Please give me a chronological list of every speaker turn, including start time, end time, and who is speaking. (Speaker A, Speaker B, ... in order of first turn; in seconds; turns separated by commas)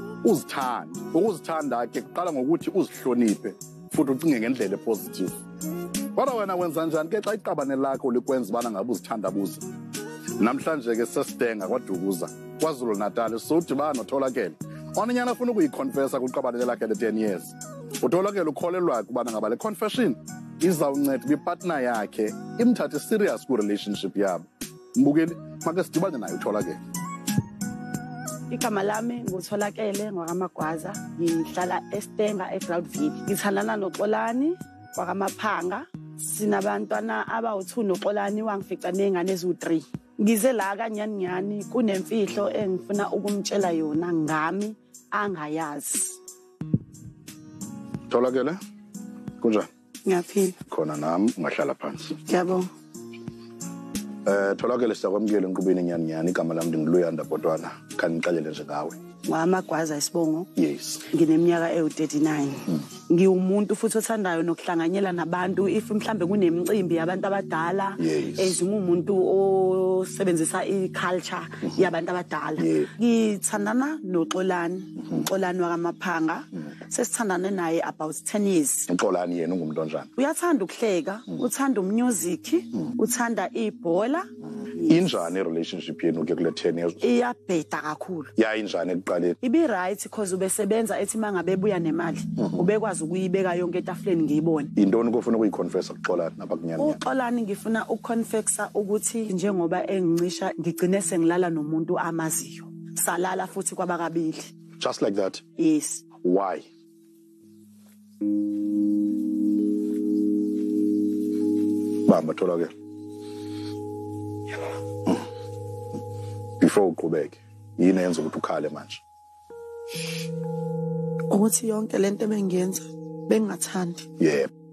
Speaker A: 0.2-5.3, Speaker A: 6.1-9.6, Speaker A: 10.4-26.8, Speaker B: 28.5-46.2, Speaker A: 48.1-48.6, Speaker A: 49.4-49.7, Speaker B: 50.0-50.6, Speaker A: 50.7-52.2, Speaker B: 52.2-52.7, Speaker A: 54.2-59.0, Speaker B: 59.2-60.5, Speaker A: 60.5-61.0, Speaker B: 61.1-78.9, Speaker A: 68.0-68.6, Speaker A: 72.6-72.9, Speaker A: 78.9-80.1, Speaker B: 80.2-85.3, Speaker A: 84.8-87.0, Speaker B: 87.0-88.3, Speaker A: 88.3-89.4, Speaker B: 89.4-94.7, Speaker A: 92.4-92.7, Speaker A: 94.8-97.0, Speaker B: 96.8-104.5, Speaker A: 104.8-105.4, Speaker B: 105.6-106.0, Speaker A: 106.2-106.7, Speaker A: 112.0-112.7, Speaker A: 116.6-119.0, Speaker B: 121.3-124.1, Speaker A: 124.2-124.5